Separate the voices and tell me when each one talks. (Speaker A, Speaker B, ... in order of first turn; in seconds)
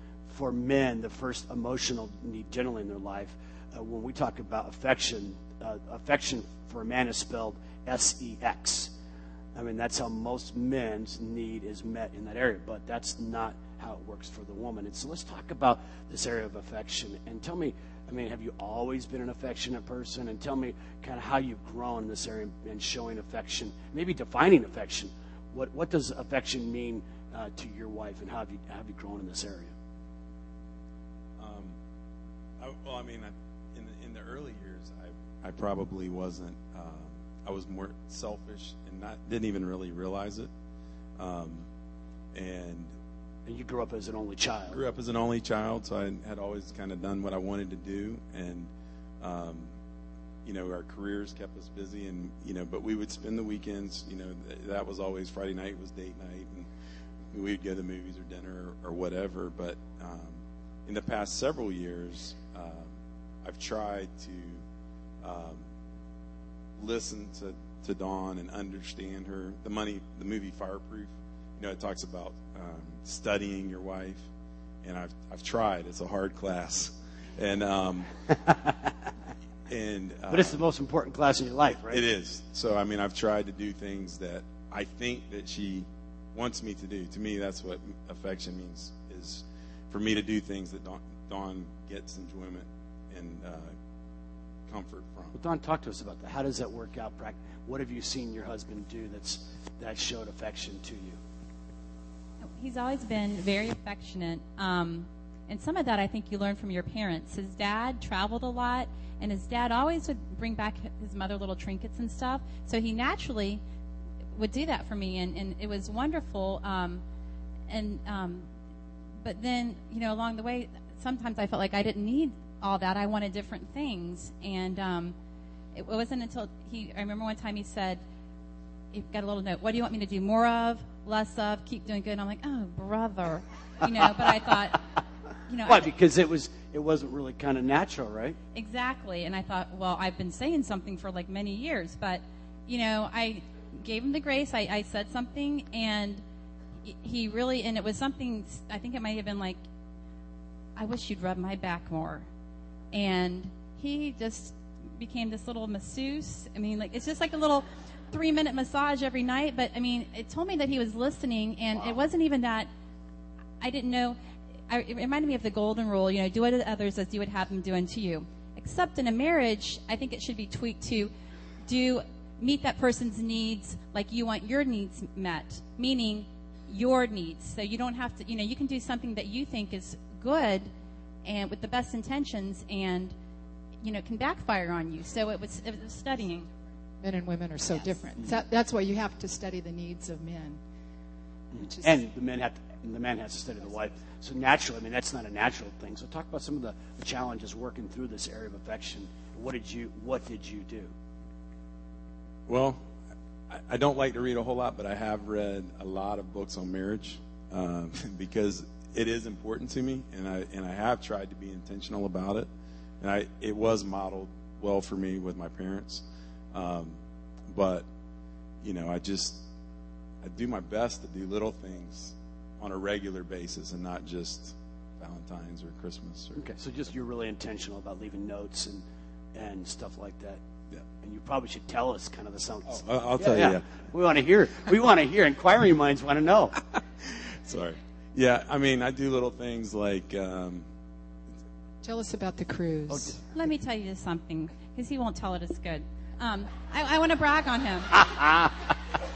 Speaker A: 0.3-8.9, 9.5-29.7, 43.5-44.8, 78.4-78.7, 80.3-82.0, 95.3-101.2, 135.7-138.4, 191.5-200.9, 226.3-230.4, 231.0-236.5, 242.9-243.2, 248.1-248.5
Speaker B: 31.4-31.8, 32.6-40.5, 41.2-41.6, 42.3-42.9, 44.7-48.7, 49.2-49.7, 50.4-56.7, 57.3-62.9, 63.4-64.6, 65.2-65.6, 66.8-74.2, 74.8-78.1, 79.7-80.5, 81.9-93.7, 94.7-95.3, 202.5-202.8, 203.5-212.5, 213.0-217.0, 217.5-217.8, 218.6-219.4, 220.2-226.5, 232.7-233.7, 236.7-240.6
Speaker C: 102.5-113.6, 114.3-117.0, 117.7-118.5, 119.2-125.1, 125.7-128.0, 128.9-134.9, 135.5-135.9, 138.5-146.2, 146.8-149.6, 150.8-152.2, 152.9-162.7, 163.6-164.2, 164.7-171.1, 171.6-180.7, 181.2-183.1, 183.8-186.5, 243.3-248.5
Speaker D: 187.0-190.6, 191.6-192.0, 241.8-243.2